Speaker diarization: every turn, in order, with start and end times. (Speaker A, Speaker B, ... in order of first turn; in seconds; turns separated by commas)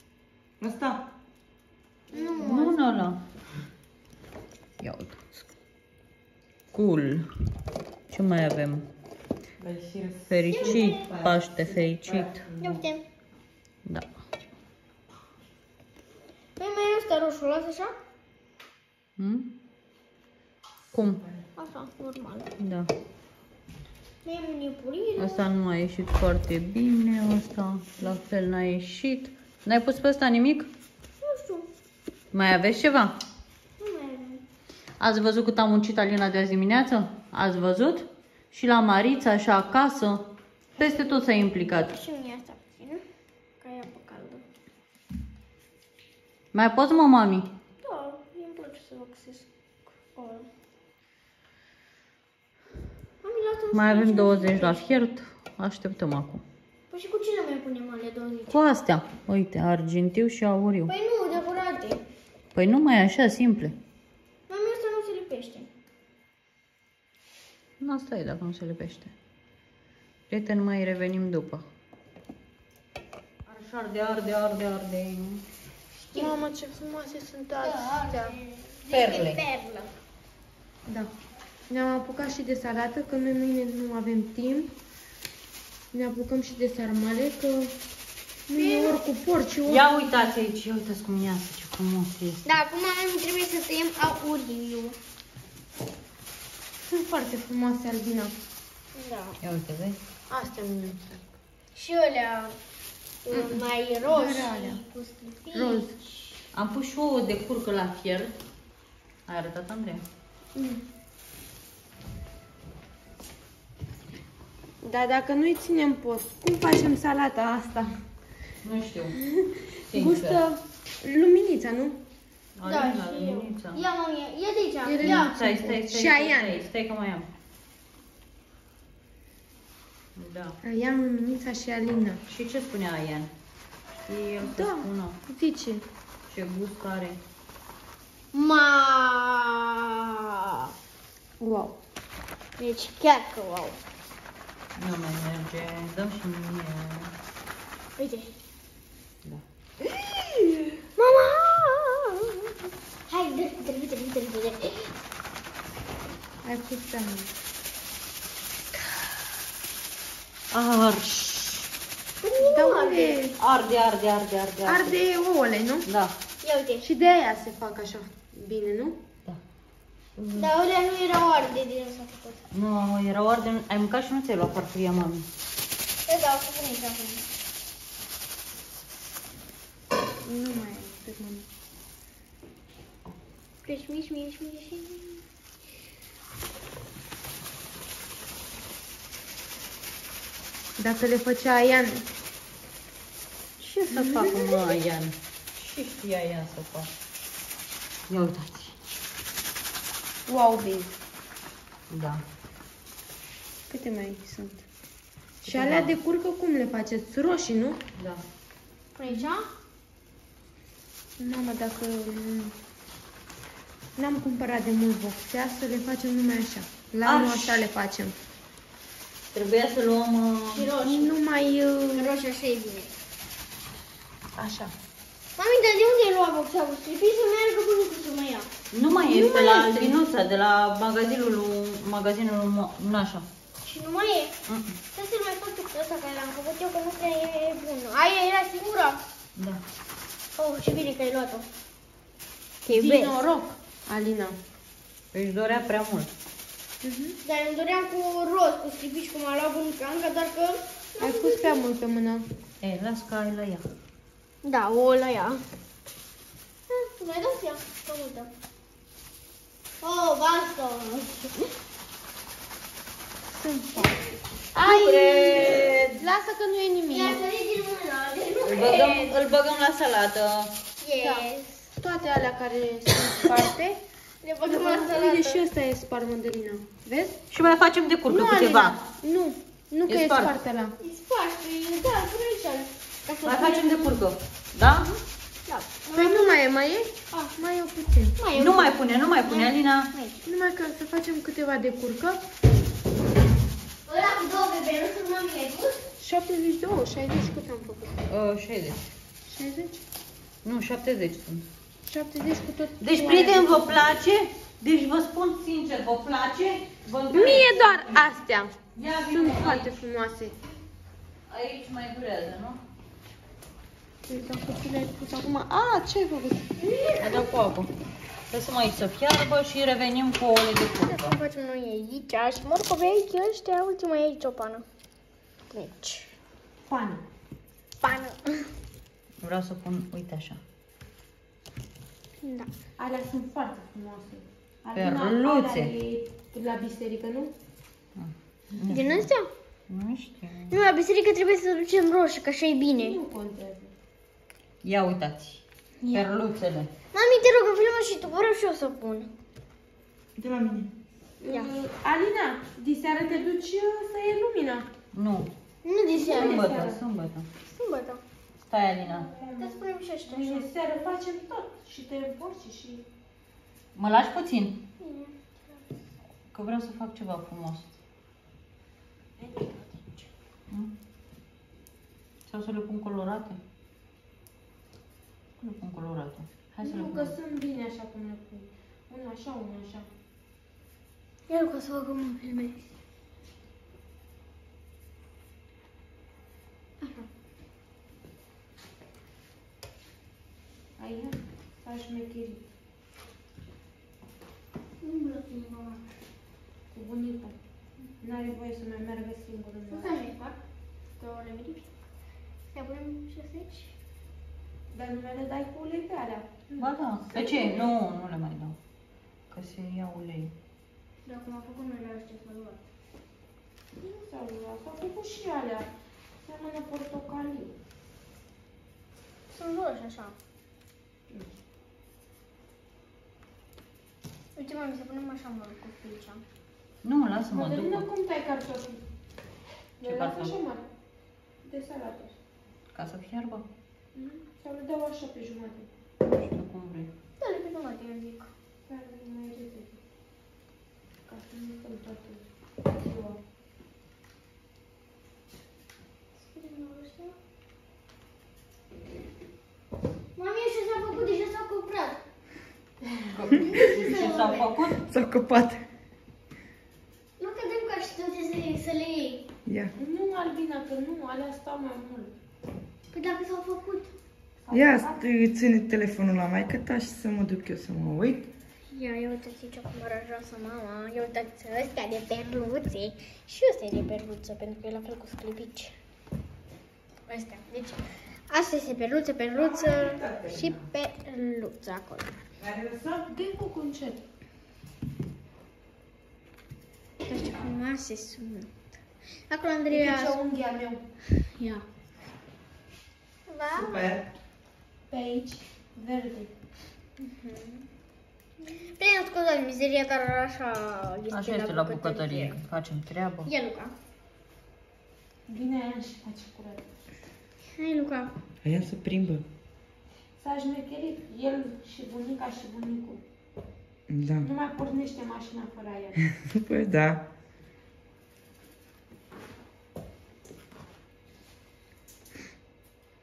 Speaker A: 0.6-1.0, Speaker B: 2.1-2.8, Speaker C: 2.4-3.2, Speaker C: 4.8-5.5, Speaker C: 6.7-7.3, Speaker C: 8.1-8.9, Speaker A: 9.6-12.8, Speaker C: 10.3-12.5, Speaker B: 10.5-11.2, Speaker B: 12.6-13.0, Speaker B: 16.6-17.9, Speaker C: 19.2-19.5, Speaker C: 20.9-21.2, Speaker B: 21.6-22.5, Speaker C: 22.6-22.9, Speaker B: 24.2-25.5, Speaker C: 25.2-30.7, Speaker B: 31.2-31.7, Speaker C: 32.3-33.2, Speaker B: 33.8-34.4, Speaker C: 35.0-42.0, Speaker B: 40.8-43.0, Speaker B: 43.6-44.4, Speaker C: 46.5-47.5, Speaker B: 47.8-49.5, Speaker B: 50.1-50.5, Speaker B: 53.2-55.0, Speaker C: 53.7-56.4, Speaker B: 56.9-58.7, Speaker C: 58.5-60.9, Speaker B: 60.9-62.0, Speaker C: 62.5-63.8, Speaker B: 64.5-65.7, Speaker C: 67.8-69.1, Speaker C: 70.3-71.7, Speaker C: 73.5-75.4, Speaker D: 76.1-78.3, Speaker B: 76.1-76.4, Speaker B: 77.6-79.9, Speaker C: 78.9-79.4, Speaker D: 81.7-84.7, Speaker D: 85.9-87.8, Speaker D: 88.5-89.8, Speaker B: 88.5-89.0, Speaker C: 89.7-92.4, Speaker B: 92.5-95.0, Speaker D: 96.9-98.3, Speaker B: 99.0-99.4, Speaker C: 99.4-100.0, Speaker D: 100.3-101.2, Speaker B: 101.7-102.6, Speaker B: 103.2-106.3, Speaker D: 103.3-104.8, Speaker D: 105.5-106.0, Speaker C: 106.5-108.3, Speaker C: 109.3-110.0, Speaker D: 110.5-110.8, Speaker D: 114.8-117.9, Speaker C: 118.6-119.2, Speaker D: 119.2-122.0, Speaker C: 119.8-120.4, Speaker C: 122.6-123.8, Speaker B: 122.7-125.4, Speaker D: 124.8-126.6, Speaker C: 125.0-127.3, Speaker C: 130.2-130.6, Speaker D: 130.6-132.2, Speaker C: 132.3-133.3, Speaker C: 134.0-135.2, Speaker D: 134.4-135.8, Speaker C: 136.3-137.2, Speaker B: 138.3-140.7, Speaker D: 141.4-141.8, Speaker B: 142.6-143.8, Speaker C: 144.8-147.1, Speaker B: 148.0-148.3, Speaker B: 151.0-152.5, Speaker B: 153.1-154.9, Speaker D: 156.4-157.3, Speaker C: 160.5-161.7, Speaker B: 162.2-163.2, Speaker D: 162.4-163.4, Speaker C: 163.4-165.0, Speaker D: 164.6-165.9, Speaker C: 165.8-166.1, Speaker B: 166.4-166.9, Speaker D: 166.8-169.0, Speaker C: 170.2-170.5, Speaker B: 170.3-172.4, Speaker C: 172.5-175.3, Speaker B: 176.1-177.3, Speaker D: 180.2-181.5, Speaker B: 183.7-185.2, Speaker D: 190.8-192.0, Speaker C: 193.6-196.9, Speaker D: 193.9-194.6, Speaker C: 198.1-198.8, Speaker D: 200.3-200.9, Speaker C: 201.9-202.2, Speaker D: 203.7-204.7, Speaker C: 205.4-205.9, Speaker D: 205.4-207.8, Speaker B: 208.9-209.5, Speaker D: 211.2-212.6, Speaker D: 214.0-218.2, Speaker C: 217.1-217.6, Speaker C: 219.3-220.8, Speaker B: 220.5-221.2, Speaker D: 220.8-222.1, Speaker B: 221.9-222.9, Speaker D: 224.4-224.7, Speaker B: 225.4-228.5, Speaker C: 228.7-233.3, Speaker B: 229.1-230.0, Speaker B: 233.6-234.3, Speaker C: 234.5-234.8, Speaker B: 234.9-239.0, Speaker C: 239.4-239.6, Speaker B: 240.4-241.5, Speaker B: 242.7-243.2, Speaker D: 242.7-244.4, Speaker C: 245.1-246.1, Speaker D: 246.8-247.2, Speaker B: 247.2-251.6, Speaker D: 251.0-252.3, Speaker C: 252.6-253.6, Speaker B: 254.4-255.4, Speaker B: 256.7-258.3, Speaker B: 259.8-261.5, Speaker D: 263.3-263.9, Speaker D: 264.6-267.2, Speaker C: 264.6-266.0, Speaker B: 266.9-269.2, Speaker C: 268.4-270.5, Speaker B: 270.8-271.7, Speaker D: 271.8-273.8, Speaker B: 274.2-275.4, Speaker D: 274.5-277.6, Speaker C: 277.3-278.8, Speaker D: 278.1-280.8, Speaker C: 279.9-280.3, Speaker B: 280.8-283.9, Speaker C: 283.2-284.9, Speaker B: 284.8-286.4, Speaker D: 285.9-288.2, Speaker B: 288.2-290.2, Speaker C: 288.3-289.9, Speaker D: 290.2-292.2, Speaker B: 293.9-295.8, Speaker D: 296.0-298.0, Speaker C: 298.1-298.8, Speaker D: 299.3-299.8, Speaker C: 300.4-301.5, Speaker D: 301.9-303.8, Speaker C: 302.8-308.0, Speaker D: 307.1-310.4, Speaker C: 308.8-309.8, Speaker C: 311.3-312.6, Speaker D: 314.1-316.5, Speaker B: 316.6-317.4, Speaker C: 317.0-317.7, Speaker C: 318.3-321.2, Speaker B: 320.7-324.7, Speaker B: 325.5-326.1, Speaker D: 326.7-327.0, Speaker B: 327.8-328.5, Speaker C: 329.2-330.4, Speaker B: 332.2-332.5, Speaker D: 332.8-337.3, Speaker C: 334.8-335.7, Speaker C: 338.0-339.1, Speaker B: 338.7-339.3, Speaker C: 339.7-340.6, Speaker B: 340.5-343.0, Speaker D: 342.8-343.7, Speaker C: 344.6-346.7, Speaker B: 345.8-346.1, Speaker B: 346.9-349.1, Speaker E: 350.2-350.7, Speaker D: 351.2-354.7, Speaker B: 351.3-351.6, Speaker C: 354.9-355.3, Speaker B: 355.6-356.6, Speaker D: 355.9-356.8, Speaker C: 356.1-357.3, Speaker B: 357.5-358.0, Speaker C: 358.4-359.1, Speaker D: 358.9-362.9, Speaker B: 359.2-360.5, Speaker C: 363.8-364.6, Speaker B: 364.8-365.6, Speaker C: 366.3-367.7, Speaker D: 369.2-370.1, Speaker C: 372.3-373.4, Speaker C: 375.4-377.1, Speaker D: 376.6-379.9, Speaker B: 381.3-382.6, Speaker D: 390.8-392.4, Speaker B: 394.8-395.8, Speaker D: 396.7-397.4, Speaker D: 398.0-400.1, Speaker B: 399.7-400.4, Speaker B: 401.0-401.7, Speaker B: 402.5-403.7, Speaker D: 404.7-407.7, Speaker C: 406.6-408.6, Speaker C: 409.3-410.3, Speaker B: 411.1-412.6, Speaker D: 413.8-415.7, Speaker D: 416.2-417.5, Speaker B: 419.3-420.1, Speaker B: 424.4-426.2, Speaker C: 426.8-427.9, Speaker D: 427.3-428.8, Speaker D: 429.8-430.6, Speaker C: 429.8-430.4, Speaker D: 431.4-432.1, Speaker C: 432.7-433.4, Speaker D: 433.9-435.7, Speaker C: 436.0-436.9, Speaker B: 437.2-438.3, Speaker D: 438.7-439.8, Speaker D: 441.1-443.2, Speaker B: 446.3-447.2, Speaker B: 450.2-452.0, Speaker C: 453.1-454.8, Speaker B: 453.7-454.6, Speaker E: 454.8-455.6, Speaker B: 457.2-459.2, Speaker E: 459.5-459.7, Speaker D: 459.8-462.1, Speaker B: 462.9-463.9, Speaker D: 464.4-465.1, Speaker E: 464.5-468.3, Speaker B: 468.7-475.7, Speaker B: 477.1-482.1, Speaker E: 482.4-483.0, Speaker D: 483.1-484.0, Speaker B: 487.1-488.5, Speaker B: 489.3-490.2, Speaker D: 489.7-490.8, Speaker B: 491.4-491.6, Speaker B: 493.3-494.0, Speaker E: 493.6-494.0, Speaker D: 494.9-496.3, Speaker B: 497.0-497.6, Speaker B: 498.5-502.4, Speaker C: 501.1-503.3, Speaker B: 503.2-503.7, Speaker D: 505.3-506.7, Speaker B: 507.6-508.1, Speaker E: 508.4-509.2, Speaker D: 510.2-513.0, Speaker E: 513.9-514.3, Speaker D: 514.2-516.0, Speaker E: 516.2-517.0